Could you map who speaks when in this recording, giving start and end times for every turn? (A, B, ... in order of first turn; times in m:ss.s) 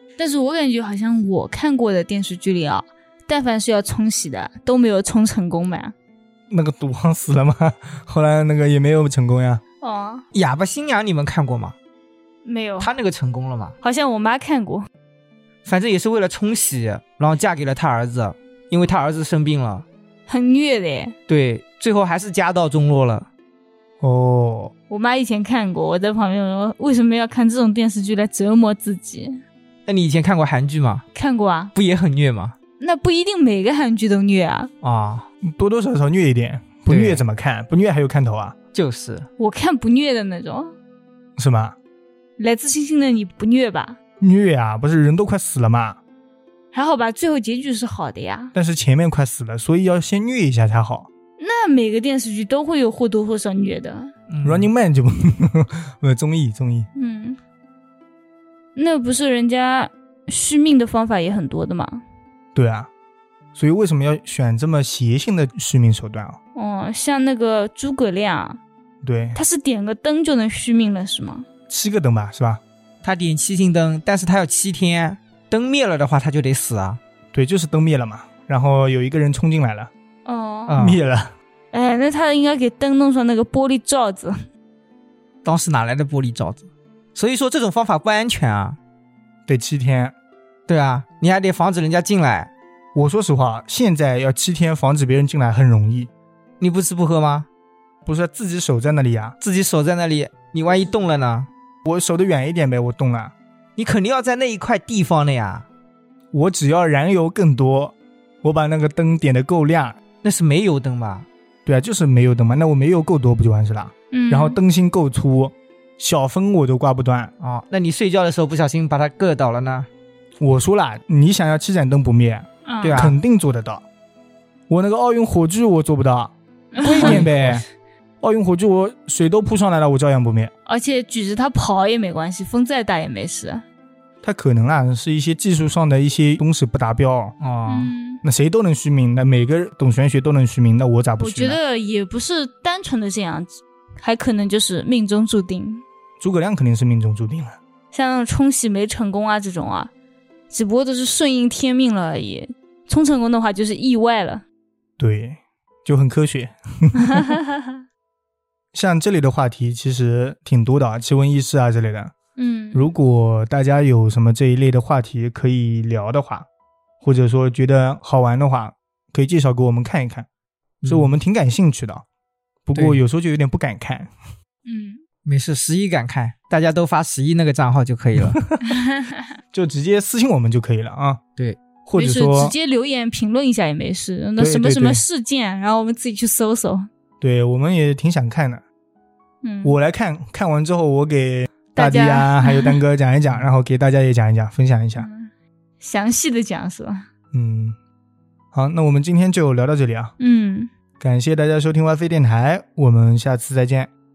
0:00.2-0:06.0 A
0:06.5-0:09.6 B
0:09.8-0:10.2 A
0:10.3-0:11.8 C
0:12.4-0:12.9 A
0:12.8-0:13.8 C
0:13.8-0:14.9 A
0:15.6-0:19.9 C
0:20.3-0:21.2 A
0:21.3-0:23.3 C
0:24.0-0:24.7 B
0:24.9-0:29.4 A
0:29.9-0:31.0 C
0:31.2-0:31.7 A
0:31.8-0:32.6 C
0:32.8-0:34.7 A
0:34.8-0:35.3 C
0:35.4-0:38.6 B
0:36.9-0:37.2 C
0:38.7-0:39.3 C
0:39.4-0:40.8 A
0:41.4-0:41.8 B
0:42.4-0:44.0 A
0:44.2-0:46.0 B
0:46.7-0:48.6 A
0:48.5-0:51.1 B
0:51.4-0:54.1 A
0:54.3-0:54.7 C
0:54.4-0:56.9 B
0:57.0-0:57.4 A
0:58.8-1:02.0 A
1:02.6-1:02.9 B
1:03.6-1:06.4 B
1:06.6-1:08.6 A
1:09.0-1:09.4 B
1:09.4-1:11.5 A
1:11.7-1:12.6 B
1:13.0-1:17.0 C
1:17.3-1:19.9 B
1:20.3-1:20.9 A
1:20.7-1:21.0 C
1:20.8-1:21.4 B
1:21.7-1:24.3 A
1:25.4-1:28.8 C
1:29.5-1:30.2 B
1:30.7-1:32.5 C
1:32.9-1:36.1 B
1:36.6-1:37.5 C
1:38.0-1:39.4 B
1:39.4-1:41.5 C
1:41.8-1:43.3 B
1:43.8-1:45.7 C
1:46.3-1:50.0 B
1:50.2-1:51.3 C
1:51.7-1:57.3 B
1:54.1-1:54.6 A
1:57.4-1:59.9 C
2:00.4-2:03.8 B
2:02.6-2:03.1 A
2:02.8-2:03.2 C
2:04.7-2:07.6 B
2:06.7-2:07.2 A
2:06.9-2:07.6 C
2:08.2-2:10.5 B
2:10.7-2:13.6 A
2:14.2-2:17.4 B
2:17.4-2:17.9 C
2:17.7-2:18.2 A
2:18.2-2:21.6 B
2:21.2-2:25.8 A
2:26.2-2:27.6 B
2:27.9-2:29.9 A
2:30.5-2:34.4 A
2:35.0-2:37.4 B
2:37.1-2:37.8 A
2:38.7-2:42.1 B
2:42.4-2:42.9 A
2:42.7-2:46.5 B
2:47.0-2:50.3 B
2:50.8-2:51.1 C
2:50.9-2:52.0 B
2:52.7-2:54.1 B
2:52.7-2:53.0 C
2:54.7-2:55.0 A
2:55.2-2:58.4 C
2:58.3-2:58.6 B
2:58.7-2:59.3 A
2:59.5-3:01.2 B
3:01.8-3:02.6 B
3:02.0-3:06.9 A
3:04.4-3:05.0 B
3:07.2-3:08.6 B
3:09.4-3:09.8 A
3:09.6-3:15.1 B
3:11.7-3:12.8 A
3:15.0-3:15.3 A
3:15.8-3:17.1 A
3:17.3-3:17.8 B
3:18.5-3:20.2 B
3:20.2-3:20.7 A
3:21.0-3:23.9 B